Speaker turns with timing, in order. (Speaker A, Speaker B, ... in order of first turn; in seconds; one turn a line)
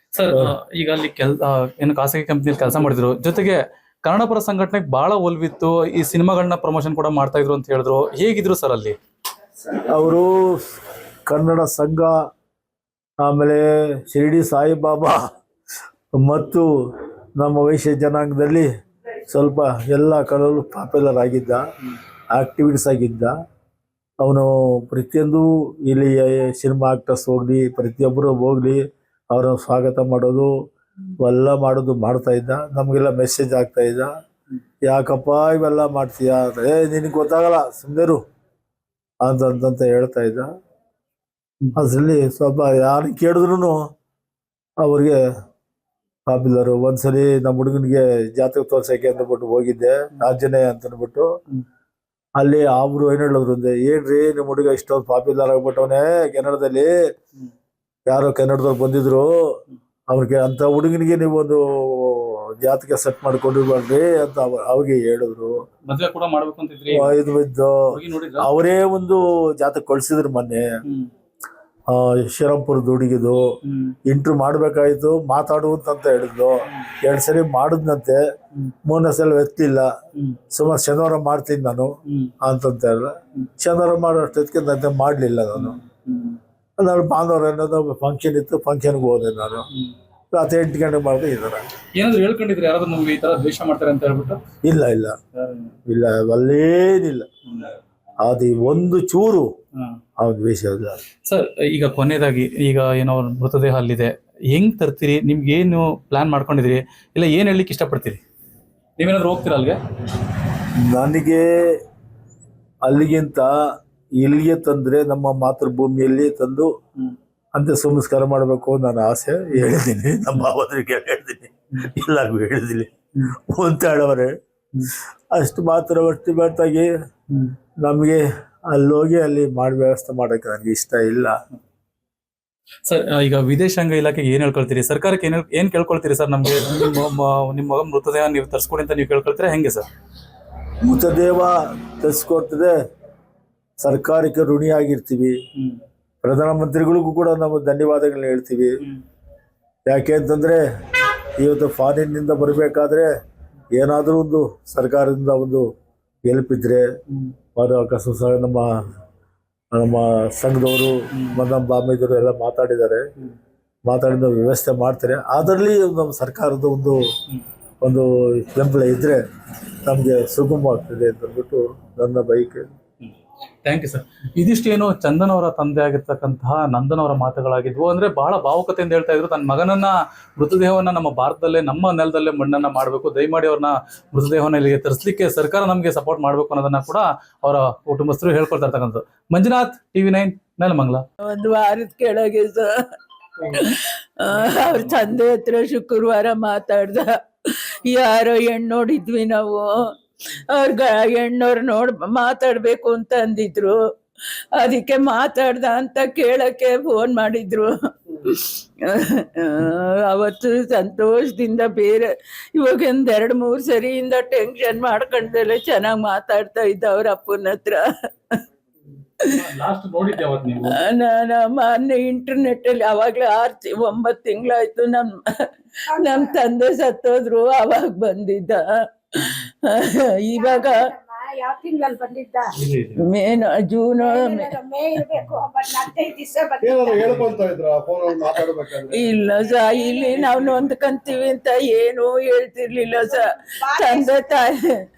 Speaker A: 0.1-9.0
Speaker B: 9.8-10.6
Speaker B: 11.3-12.2
Speaker B: 13.2-15.3
Speaker B: 16.2-16.7
Speaker B: 17.4-18.7
Speaker B: 19.3-21.6
Speaker B: 22.3-23.3
Speaker B: 24.2-30.5
Speaker B: 31.2-34.1
Speaker B: 34.8-38.2
Speaker B: 39.2-40.5
Speaker B: 41.8-43.9
Speaker B: 44.8-45.2
Speaker B: 46.3-51.3
Speaker B: 52.4-56.9
Speaker B: 58.1-59.6
Speaker B: 60.1-65.6
Speaker A: 65.9-67.2
Speaker B: 66.9-67.8
Speaker A: 67.9-68.5
Speaker B: 68.4-70.7
Speaker A: 70.8-71.1
Speaker B: 71.9-78.2
Speaker A: 73.6-74.0
Speaker B: 78.8-79.9
Speaker A: 80.2-80.4
Speaker B: 80.5-85.8
Speaker A: 82.1-82.3
Speaker A: 85.6-86.4
Speaker B: 86.8-89.7
Speaker B: 90.3-91.7
Speaker A: 92.0-94.4
Speaker B: 94.6-95.2
Speaker A: 95.3-95.7
Speaker B: 95.9-97.3
Speaker A: 97.5-97.7
Speaker B: 98.2-99.5
Speaker B: 100.2-101.0
Speaker A: 101.2-108.2
Speaker A: 109.0-109.8
Speaker B: 110.7-111.8
Speaker B: 112.8-113.5
Speaker B: 114.2-116.7
Speaker B: 117.5-124.3
Speaker B: 125.3-126.9
Speaker A: 127.3-127.5
Speaker B: 127.8-131.4
Speaker A: 132.9-139.8
Speaker B: 140.8-142.8
Speaker B: 143.8-145.4
Speaker A: 145.6-145.8
Speaker B: 146.2-148.8
Speaker B: 149.9-150.6
Speaker B: 151.4-153.1
Speaker B: 153.7-155.7
Speaker B: 156.3-156.8
Speaker A: 157.1-157.3
Speaker B: 157.6-158.7
Speaker B: 159.7-163.1
Speaker A: 161.1-161.4
Speaker B: 163.9-167.0
Speaker B: 167.8-169.2
Speaker B: 169.8-172.7
Speaker A: 173.6-191.0
Speaker C: 191.2-192.7
Speaker C: 193.5-203.8
Speaker A: 194.3-195.1
Speaker C: 204.6-218.4
Speaker A: 219.2-220.8
Speaker C: 220.7-228.6
Speaker D: 225.9-226.4
Speaker C: 229.1-230.9
Speaker D: 230.3-232.6
Speaker A: 232.5-233.1
Speaker C: 233.0-234.6
Speaker D: 234.0-237.2
Speaker E: 236.6-239.3
Speaker A: 237.0-237.4
Speaker C: 238.9-244.6
Speaker D: 239.4-240.6
Speaker E: 240.2-240.6
Speaker D: 243.0-244.4